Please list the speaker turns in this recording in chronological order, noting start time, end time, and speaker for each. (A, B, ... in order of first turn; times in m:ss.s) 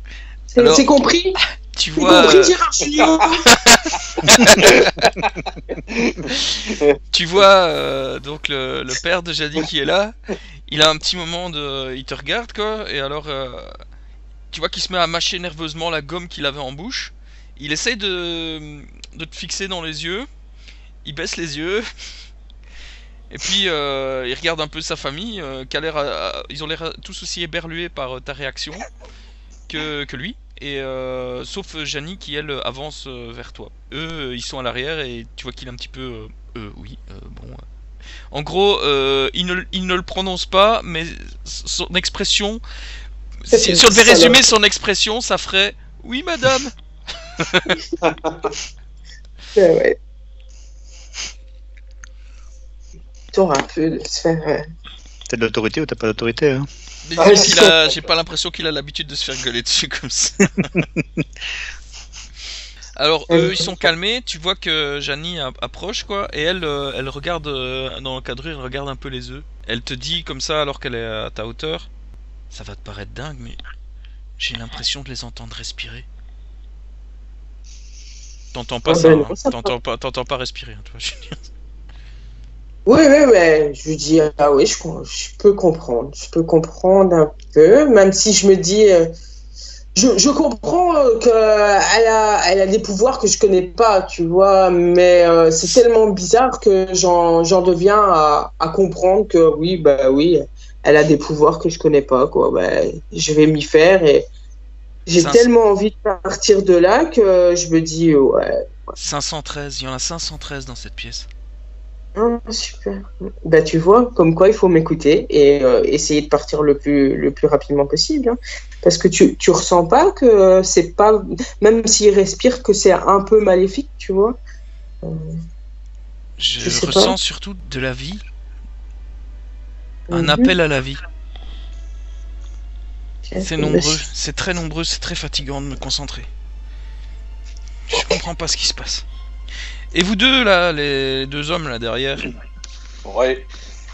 0:00.5-0:01.4 A
0:00.6-0:00.9 B
0:01.7-0:02.6 B
0:02.0-0:03.5 A
0:03.4-0:04.8 B
0:04.6-0:05.0 C
0:05.9-0:07.0 C
0:07.1-0:10.1 B
0:10.7-0:13.7 B
0:14.5-0:20.3 B
0:21.0-0:21.8 B
0:23.3-0:28.8 B
0:29.7-0:37.6 B
0:38.3-0:42.6 B
0:43.5-0:46.7 B
0:43.5-0:44.4 A
0:47.4-0:47.8 B
0:48.0-0:48.5 C
0:49.5-0:50.0 A
0:53.3-0:54.7 A
0:55.3-0:56.7 D
0:57.0-1:00.7 B
0:57.2-0:57.9 A
1:00.7-1:01.2 D
1:03.0-1:11.9 B
1:03.3-1:03.6 A
1:12.5-1:13.6 B
1:14.4-1:16.0 B
1:18.5-1:21.4 B
1:18.8-1:19.7 A
1:22.8-1:29.1 A
1:29.9-1:44.3 A
1:45.1-1:48.9 A
1:45.2-1:45.5 B
1:49.0-1:51.3 B
1:52.2-2:04.4 A
2:05.0-2:05.4 A
2:06.4-2:08.2 B
2:06.6-2:07.2 A
2:10.1-2:10.5 A
2:10.1-2:11.0 B
2:13.3-2:14.0 A
2:13.4-2:16.3 B
2:17.9-2:19.0 B
2:19.9-2:22.3 B
2:23.0-2:23.4 C